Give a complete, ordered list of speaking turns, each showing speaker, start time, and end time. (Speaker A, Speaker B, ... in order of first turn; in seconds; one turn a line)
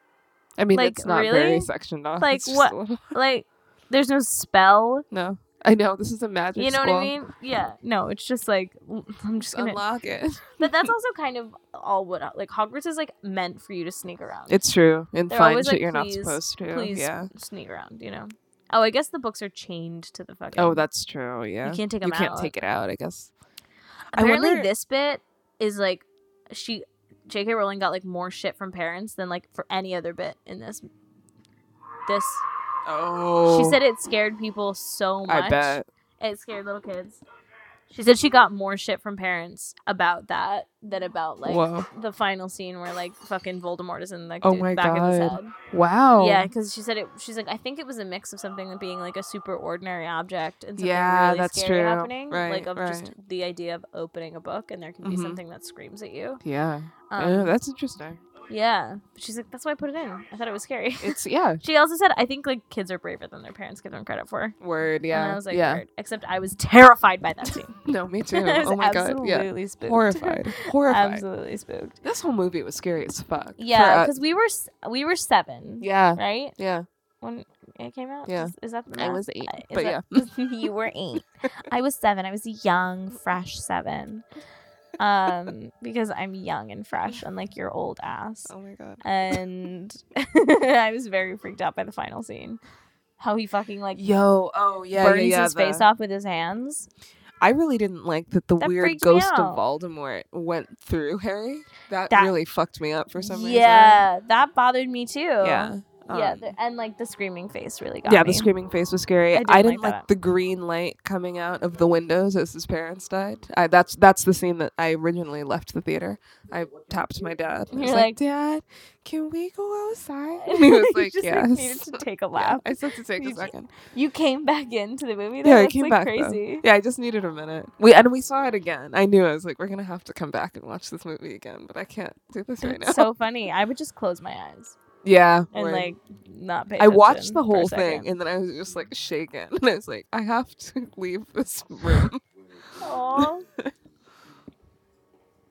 Speaker A: 0.6-3.1
Speaker B: 0.7-5.1
Speaker A: 5.1-7.2
Speaker B: 6.6-9.8
Speaker A: 9.4-10.9
Speaker B: 10.6-14.6
Speaker A: 14.5-17.3
Speaker B: 15.3-20.8
Speaker A: 20.6-23.3
Speaker B: 21.6-22.5
Speaker A: 24.1-24.7
Speaker B: 24.1-30.9
Speaker B: 32.1-32.4
Speaker A: 32.9-33.8
Speaker B: 33.5-37.2
Speaker A: 35.3-35.9
Speaker B: 37.9-45.5
Speaker A: 41.4-41.9
Speaker A: 44.4-46.5
Speaker B: 46.2-56.4
Speaker A: 50.8-53.1
Speaker A: 55.0-55.4
Speaker A: 56.4-58.2
Speaker B: 57.1-57.5
Speaker B: 58.5-64.6
Speaker A: 61.0-61.6
Speaker A: 64.6-65.8
Speaker B: 65.1-72.0
Speaker A: 67.8-71.2
Speaker A: 72.0-74.1
Speaker B: 73.6-76.6
Speaker A: 75.8-76.9
Speaker B: 77.2-84.2
Speaker A: 78.3-80.3
Speaker B: 85.0-92.6
Speaker A: 88.5-89.0
Speaker B: 93.2-94.0
Speaker A: 94.0-95.8
Speaker B: 95.0-96.9
Speaker A: 97.4-104.1
Speaker B: 98.6-99.6
Speaker B: 102.1-102.4
Speaker B: 103.2-108.5
Speaker A: 105.4-106.5
Speaker A: 108.0-123.7
Speaker B: 109.3-110.1
Speaker B: 117.7-118.2
Speaker B: 120.4-126.6
Speaker A: 125.4-133.1
Speaker B: 132.6-134.8
Speaker A: 135.0-135.9
Speaker B: 135.5-138.1
Speaker A: 136.8-142.2
Speaker B: 142.8-143.4
Speaker A: 143.2-143.7